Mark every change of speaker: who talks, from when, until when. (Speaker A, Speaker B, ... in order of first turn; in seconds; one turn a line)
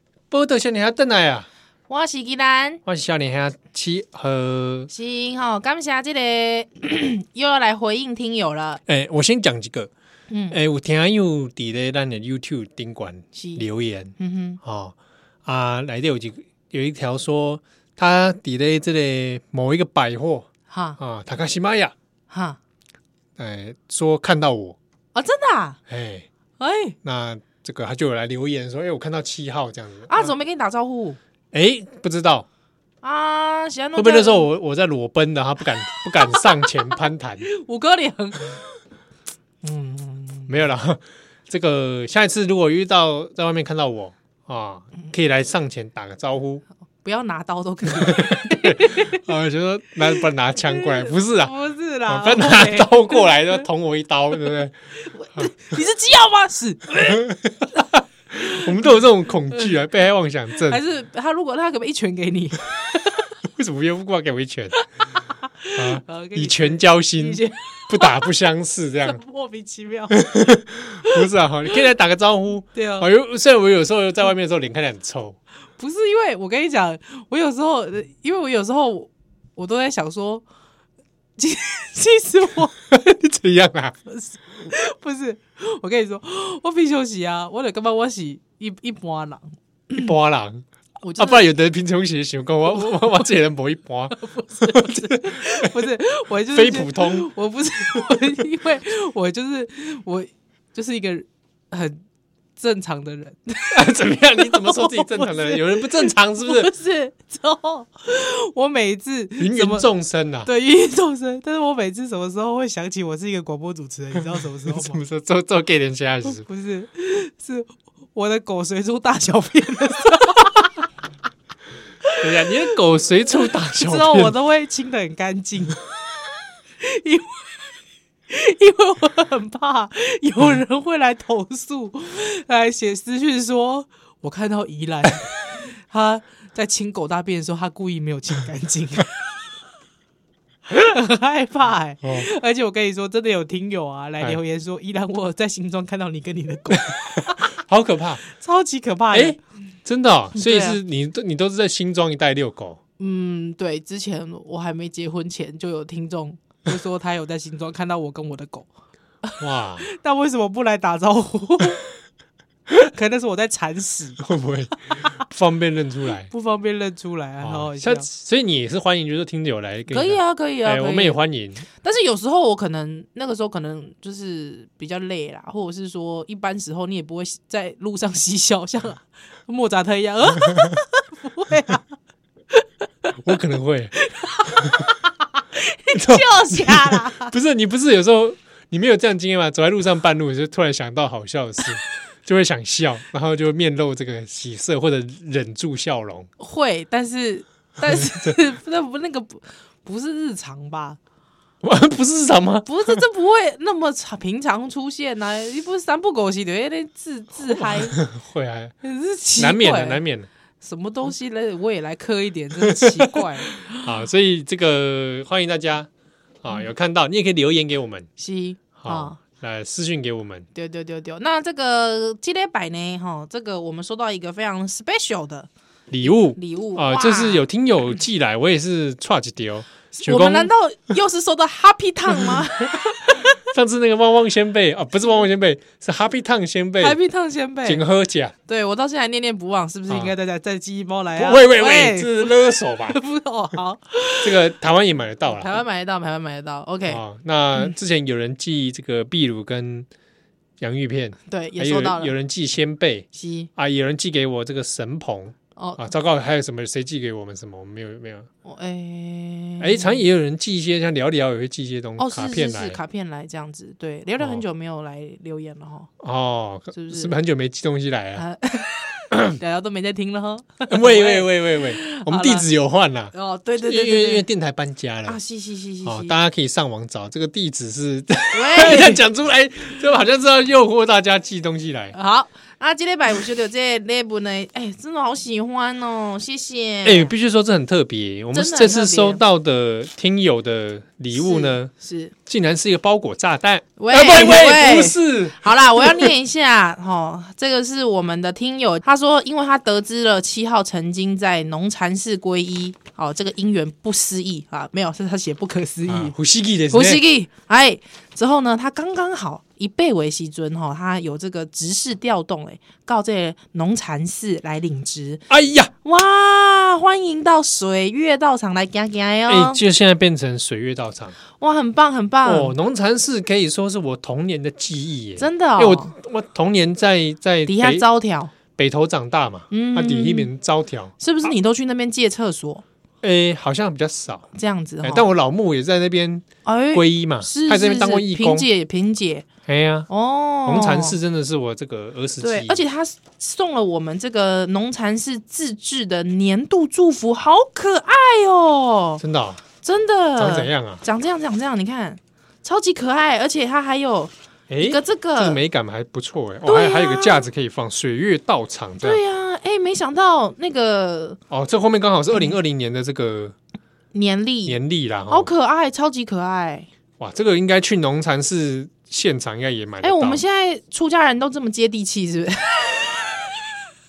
Speaker A: 0.3-1.5
Speaker B: 1.9-2.8
Speaker A: 2.9-4.9
Speaker B: 4.9-8.8
Speaker A: 8.9-9.9
Speaker B: 10.3-10.6
Speaker A: 10.5-14.9
Speaker B: 13.3-13.6
Speaker B: 14.2-14.6
Speaker A: 15.5-20.5
Speaker B: 20.7-21.0
Speaker A: 21.0-21.9
Speaker B: 22.3-22.6
Speaker A: 23.4-24.8
Speaker B: 25.1-25.8
Speaker A: 25.9-26.3
Speaker B: 26.6-27.0
Speaker A: 27.0-30.3
Speaker B: 30.1-31.2
Speaker A: 31.5-32.5
Speaker B: 33.0-34.5
Speaker A: 34.0-37.5
Speaker B: 36.2-36.9
Speaker B: 37.5-38.6
Speaker B: 39.6-40.6
Speaker A: 40.5-46.6
Speaker B: 47.0-49.2
Speaker A: 48.0-51.5
Speaker B: 50.2-53.7
Speaker A: 52.1-54.8
Speaker B: 55.0-57.3
Speaker A: 57.1-57.8
Speaker B: 58.3-59.0
Speaker A: 58.4-60.8
Speaker B: 60.6-63.0
Speaker A: 63.5-64.7
Speaker B: 64.8-68.2
Speaker A: 65.8-69.2
Speaker B: 69.0-70.5
Speaker A: 70.1-75.4
Speaker B: 72.7-73.1
Speaker B: 75.8-80.5
Speaker B: 81.4-82.8
Speaker A: 82.9-84.0
Speaker B: 84.1-90.1
Speaker A: 89.9-90.6
Speaker B: 91.0-91.4
Speaker A: 91.2-95.8
Speaker B: 94.2-102.0
Speaker A: 96.5-97.3
Speaker B: 102.6-103.8
Speaker A: 103.7-106.7
Speaker B: 104.4-109.9
Speaker A: 109.4-110.5
Speaker B: 110.5-115.0
Speaker A: 114.2-116.4
Speaker B: 116.2-120.7
Speaker B: 122.2-122.5
Speaker A: 122.2-124.3
Speaker B: 123.7-126.0
Speaker B: 126.8-127.7
Speaker B: 128.3-139.2
Speaker B: 140.7-147.6
Speaker A: 142.0-142.3
Speaker A: 147.5-148.2
Speaker B: 148.3-149.4
Speaker A: 149.1-152.8
Speaker B: 150.3-150.8
Speaker B: 153.0-158.7
Speaker B: 159.2-162.0
Speaker A: 159.4-159.9
Speaker B: 162.8-164.2
Speaker A: 164.2-166.3
Speaker B: 166.2-168.1
Speaker A: 167.4-171.7
Speaker B: 169.9-171.2
Speaker B: 171.7-181.9
Speaker A: 183.2-183.9
Speaker B: 184.0-187.3
Speaker A: 185.9-196.3
Speaker B: 196.4-201.0
Speaker A: 201.6-203.0
Speaker B: 202.7-208.0
Speaker A: 207.6-208.7
Speaker B: 208.8-210.0
Speaker A: 209.4-210.3
Speaker B: 210.6-213.9
Speaker A: 212.7-213.2
Speaker A: 213.8-215.9
Speaker A: 216.4-218.1
Speaker B: 218.2-219.2
Speaker A: 218.8-220.5
Speaker B: 220.6-225.5
Speaker A: 225.9-230.5
Speaker B: 226.3-227.4
Speaker B: 230.0-233.4
Speaker A: 232.2-232.5
Speaker A: 233.1-237.0
Speaker B: 236.8-237.8
Speaker A: 237.6-238.3
Speaker B: 238.5-244.4
Speaker A: 239.9-240.1
Speaker A: 241.2-243.0
Speaker A: 244.2-245.6
Speaker B: 245.3-247.0
Speaker A: 246.9-249.9
Speaker A: 250.6-258.3
Speaker B: 251.3-252.1
Speaker B: 253.1-253.5
Speaker B: 255.6-255.8
Speaker B: 258.4-260.0
Speaker A: 259.6-262.8
Speaker B: 262.0-265.9
Speaker A: 266.0-268.2
Speaker B: 266.7-267.1
Speaker B: 268.2-272.5
Speaker A: 270.7-275.2
Speaker B: 273.1-274.3
Speaker B: 275.1-276.2
Speaker A: 275.8-282.0
Speaker B: 278.3-279.0
Speaker B: 281.9-287.1
Speaker A: 286.9-291.7
Speaker B: 288.3-289.2
Speaker B: 291.1-292.1
Speaker A: 292.3-296.1
Speaker B: 293.8-306.1
Speaker A: 305.9-307.0
Speaker B: 306.7-315.2
Speaker A: 315.3-315.7
Speaker B: 315.8-319.6
Speaker A: 319.3-321.2
Speaker B: 321.4-322.5
Speaker A: 322.2-327.9
Speaker B: 325.2-325.9
Speaker B: 327.5-328.3
Speaker A: 328.6-330.9
Speaker B: 329.5-330.3
Speaker B: 331.0-332.6
Speaker A: 333.0-334.3
Speaker B: 334.3-335.1
Speaker A: 334.8-338.5
Speaker B: 336.4-339.3
Speaker A: 339.5-339.9
Speaker B: 339.9-341.0
Speaker A: 340.4-342.6
Speaker B: 342.2-349.0
Speaker A: 349.0-349.4
Speaker B: 349.6-355.4
Speaker A: 350.2-350.8
Speaker A: 354.5-359.0
Speaker B: 356.4-357.3
Speaker B: 358.8-361.2
Speaker A: 361.3-363.4
Speaker B: 363.9-364.6
Speaker A: 364.5-365.3
Speaker B: 365.1-366.7
Speaker A: 367.0-370.2
Speaker B: 369.8-373.3